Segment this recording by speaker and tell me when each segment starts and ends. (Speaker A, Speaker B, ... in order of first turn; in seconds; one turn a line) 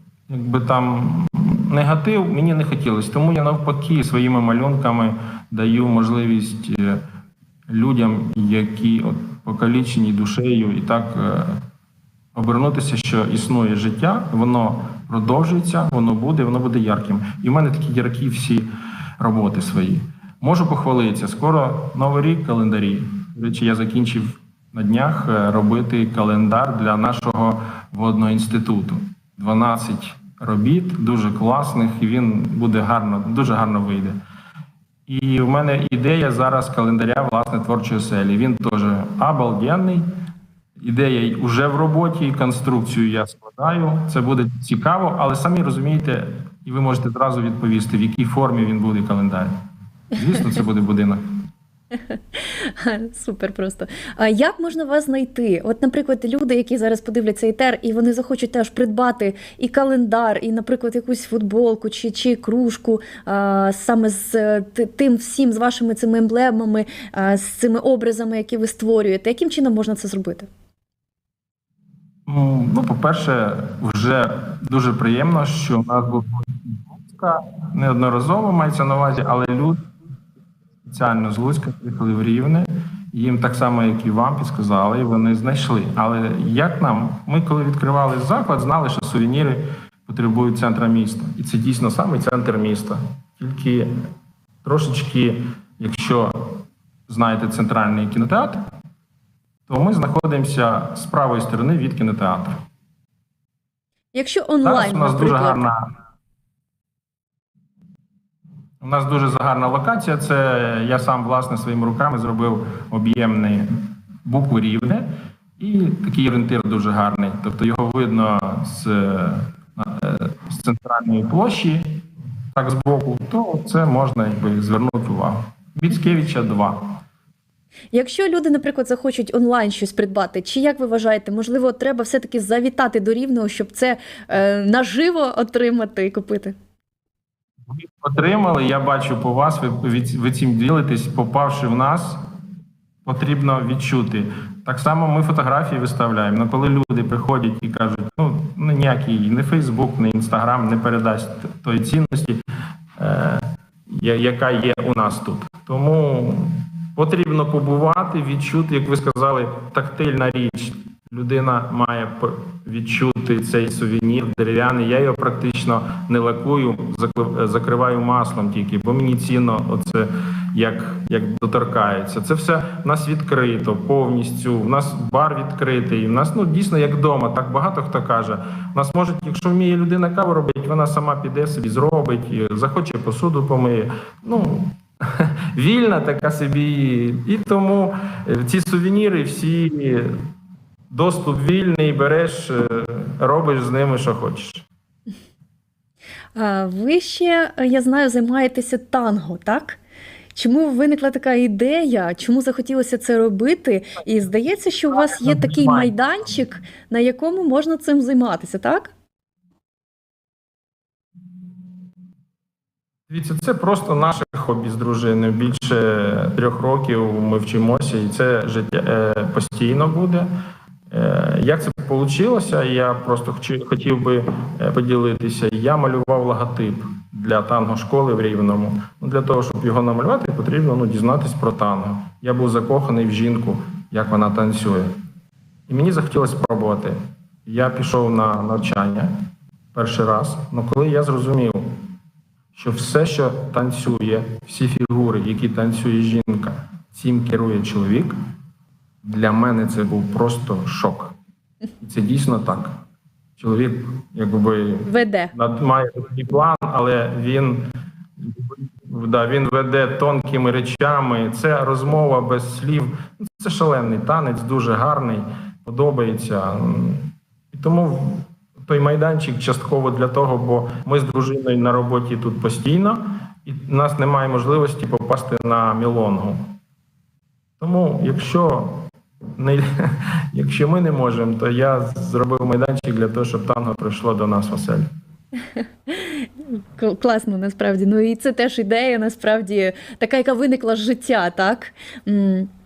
Speaker A: 0.3-7.0
Speaker A: 7.7-11.6
Speaker A: 12.3-18.7
Speaker A: 19.2-34.2
Speaker A: 35.1-40.1
Speaker A: 40.8-49.5
Speaker A: 50.1-51.4
Speaker B: 52.4-70.5
Speaker A: 72.3-79.8
Speaker A: 80.8-93.9
Speaker A: 94.6-98.7
Speaker A: 99.7-102.6
Speaker B: 104.1-105.7
Speaker A: 104.6-105.8
Speaker A: 108.8-115.1
Speaker A: 115.6-127.0
Speaker B: 127.9-136.6
Speaker A: 137.7-142.2
Speaker A: 143.1-152.4
Speaker A: 153.0-190.2
Speaker A: 190.9-194.7
Speaker B: 196.4-199.8
Speaker B: 200.3-208.9
Speaker A: 204.9-205.9
Speaker A: 213.1-220.3
Speaker A: 220.9-234.9
Speaker A: 235.7-239.1
Speaker A: 239.7-241.8
Speaker A: 242.6-248.1
Speaker A: 249.0-251.2
Speaker A: 251.8-252.8
Speaker A: 253.4-276.5
Speaker B: 254.9-255.3
Speaker A: 277.6-284.9
Speaker B: 285.9-292.5